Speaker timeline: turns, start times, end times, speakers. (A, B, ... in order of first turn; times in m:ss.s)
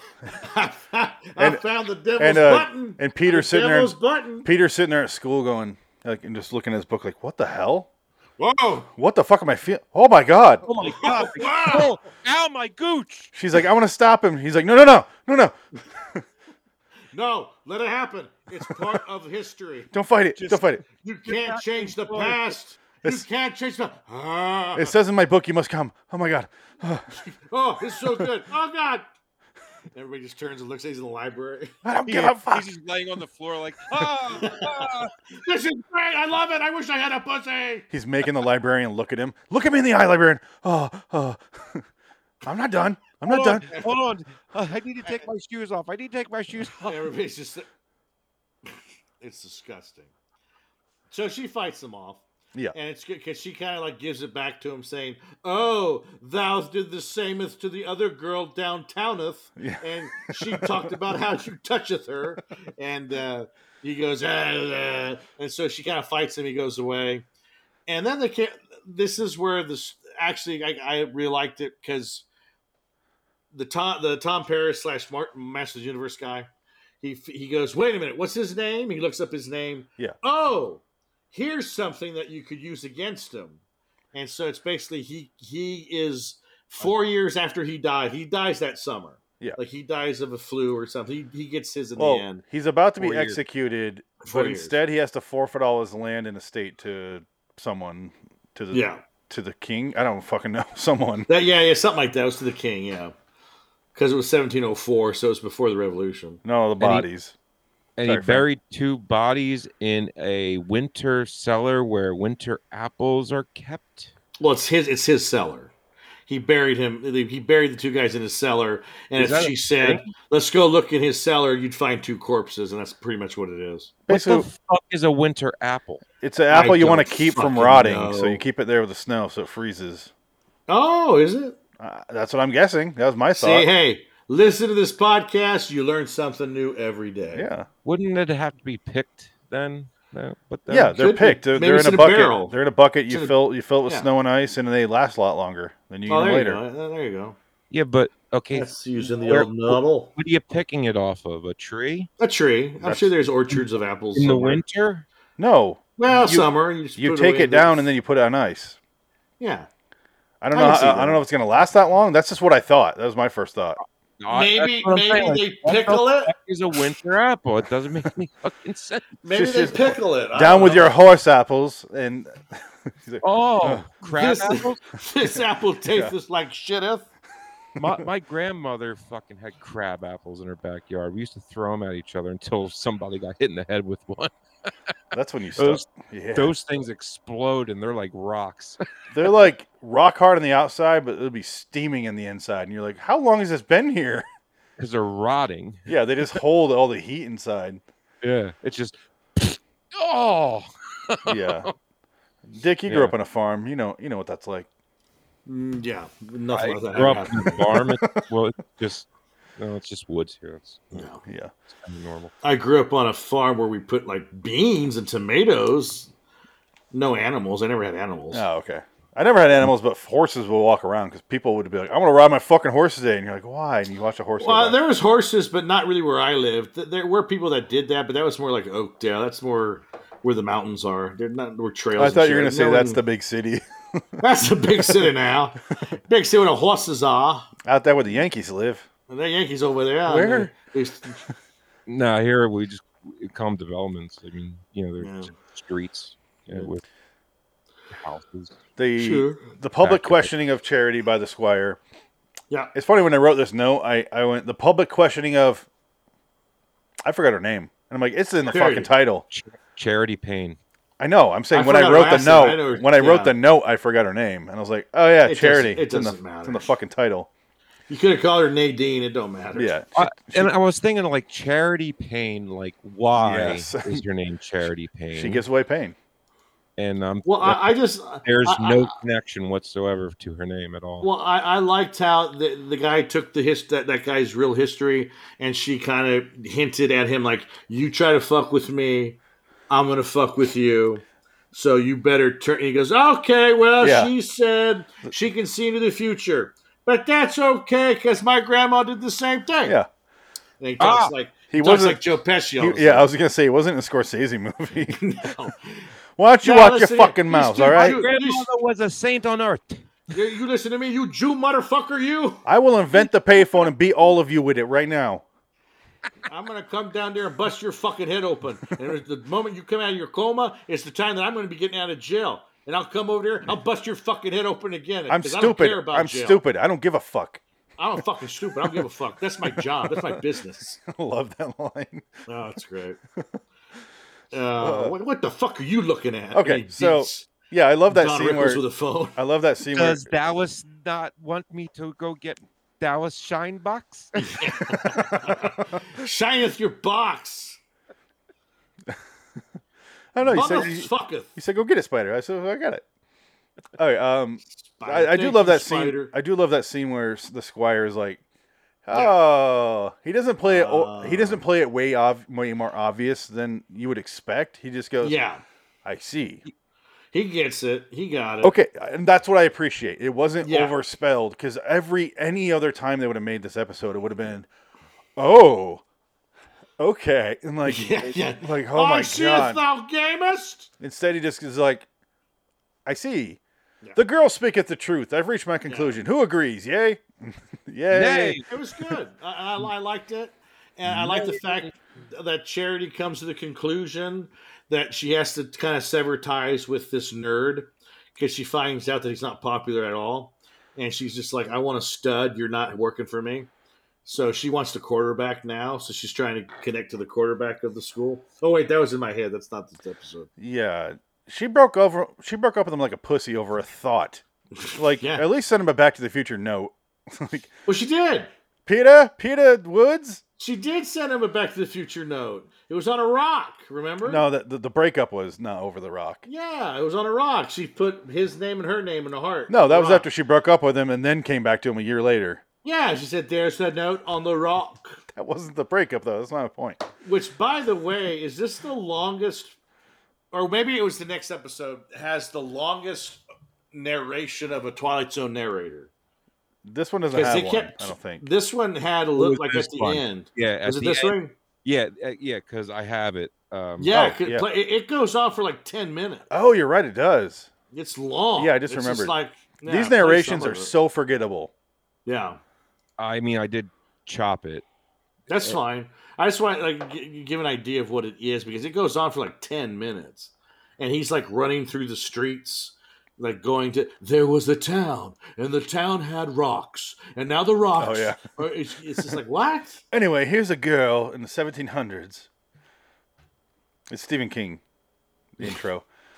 0:00.3-0:04.5 A
0:02.2-0:07.9 B
0:08.4-0:08.9 A
0:09.0-0:10.6 B
0:10.7-0:13.3 C
0:10.9-0:11.9 A
0:13.3-0:16.2 B
0:17.1-0:19.9 A
0:19.9-0:20.8 B
0:20.4-0:22.4 C
0:21.0-0:25.0 A
0:24.8-0:27.2 B
0:27.2-0:29.1 A
0:29.9-0:31.8 A
0:31.8-0:32.6 B
0:32.1-0:35.1 C
0:34.4-0:37.9 A
0:37.9-0:41.8 B
0:42.4-0:43.7 B
0:43.2-0:47.1 C
0:46.8-0:47.7 A
0:48.7-0:50.1 A
0:51.1-1:07.2 A
0:59.6-1:00.9 B
1:07.9-1:12.2 A
1:13.5-1:16.5 A
1:17.0-1:23.6 A
1:24.1-1:32.4 A
1:32.0-1:41.3 B
1:33.1-1:33.4 C
1:34.2-1:34.8 A
1:38.7-1:39.0 A
1:41.3-1:43.2 A
1:44.0-1:46.4 A
1:46.4-1:47.3 B
1:46.8-1:47.1 C
1:48.0-1:54.1 C
1:48.0-1:48.5 B
1:54.4-1:55.7 A
1:56.3-2:03.9 A
1:59.2-2:00.1 C
2:04.1-2:04.5 B
2:04.1-2:06.0 C
2:06.2-2:10.1 B
2:06.5-2:08.4 A
2:10.7-2:11.6 A
2:11.8-2:13.7 B
2:13.3-2:17.5 A
2:17.3-2:17.7 B
2:17.8-2:21.0 C
2:20.7-2:26.6 B
2:21.0-2:22.6 A
2:23.1-2:24.1 A
2:26.1-2:27.4 A
2:27.7-2:32.1 C
2:28.5-2:30.1 A
2:32.2-2:34.6 A
2:32.8-2:33.2 B
2:34.2-2:35.1 C
2:35.4-2:38.8 B
2:36.0-2:37.8 A
2:39.4-2:39.7 A
2:40.4-2:43.8 B
2:40.5-2:41.2 A
2:43.8-2:49.2 C
2:44.3-2:46.3 A
2:49.2-2:50.9 A
2:49.3-2:53.9 B
2:53.2-2:54.8 C
2:54.1-2:57.1 A
2:57.8-3:04.3 C
2:57.8-2:58.1 B
3:05.1-3:06.5 B
3:05.6-3:09.3 C
3:09.1-3:14.3 B
3:14.8-3:16.4 C
3:15.9-3:17.8 B
3:18.2-3:21.7 C
3:21.3-3:21.7 B
3:22.5-3:24.7 B
3:22.9-3:23.2 C
3:25.5-3:27.7 A
3:26.5-3:31.0 C
3:30.9-3:31.2 A
3:31.2-3:31.5 B
3:31.7-3:32.3 C
3:32.4-3:36.1 A
3:36.9-3:38.5 A
3:38.3-3:44.8 B
3:44.4-3:53.0 A
3:52.0-3:54.0 B
3:54.2-3:57.5 A
3:54.8-3:55.1 B
3:57.6-3:58.9 B
3:59.1-4:01.2 A
4:00.1-4:00.5 B
4:01.9-4:06.8 C
4:05.0-4:05.3 A
4:07.9-4:08.6 C
4:08.8-4:11.8 B
4:09.0-4:09.5 A
4:09.8-4:10.3 C
4:12.7-4:15.7 B
4:17.0-4:19.2 B
4:18.5-4:18.9 A
4:19.3-4:20.6 C
4:21.0-4:27.3 B
4:21.5-4:23.4 A
4:25.2-4:26.7 A
4:27.9-4:29.7 A
4:29.5-4:30.5 B
4:30.0-4:35.4 C
4:33.2-4:34.0 B
4:35.1-4:36.0 B
4:36.8-4:41.1 C
4:37.2-4:38.9 A
4:41.0-4:49.2 A
4:49.7-4:59.8 A
4:53.8-4:54.1 B
5:00.6-5:03.1 A
5:00.8-5:01.1 C
5:01.5-5:02.0 B
5:02.6-5:05.0 B
5:04.9-5:05.9 A
5:06.2-5:08.0 B
5:06.4-5:08.5 A
5:07.5-5:10.0 C
5:10.1-5:12.4 A
5:12.5-5:15.2 B
5:16.3-5:26.4 A
5:25.1-5:27.4 B
5:27.8-5:30.8 A
5:29.4-5:30.2 B
5:30.8-5:32.1 B
5:32.3-5:33.0 A
5:34.3-5:37.3 A
5:34.6-5:34.9 B
5:36.3-5:38.6 B
5:37.9-5:39.2 A
5:39.2-5:40.2 B
5:39.8-5:44.6 C
5:44.2-5:47.6 A
5:50.2-5:52.8 B
5:50.3-5:51.3 A
5:53.8-5:58.2 B
5:54.5-5:56.1 A
5:58.9-6:05.2 B
6:00.4-6:01.4 A
6:05.0-6:05.4 A
6:05.8-6:06.4 B
6:07.1-6:08.5 A
6:08.4-6:14.5 B
6:10.4-6:10.8 A
6:15.2-6:15.8 B
6:16.8-6:19.6 B
6:17.6-6:20.7 A
6:20.8-6:21.9 B
6:22.9-6:23.4 B
6:24.0-6:28.4 B
6:25.7-6:26.0 A
6:27.9-6:28.5 C
6:28.5-6:43.5 A
6:30.9-6:31.7 C
6:44.0-6:50.3 A
6:50.4-6:54.2 B
6:54.6-6:55.3 A
6:54.8-6:57.5 B
6:57.7-6:58.3 A
6:58.7-7:00.2 B
7:00.4-7:04.2 A
7:04.0-7:06.2 B
7:06.2-7:10.0 A
7:09.5-7:12.4 B
7:12.6-7:15.0 A
7:15.2-7:16.8 B
7:17.0-7:19.6 A
7:20.3-7:23.2 A
7:23.7-7:25.9 A
7:26.6-7:28.3 B
7:27.1-7:31.3 A
7:29.2-7:34.0 C
7:33.8-7:36.3 A
7:33.9-7:34.5 B
7:36.3-7:37.5 B
7:37.7-7:40.7 A
7:38.4-7:41.5 B
7:42.1-7:42.4 A
7:43.0-7:44.6 C
7:45.3-7:59.8 A
7:57.8-7:58.4 B
7:59.9-8:02.3 B
8:03.9-8:04.6 B
8:05.4-8:05.8 B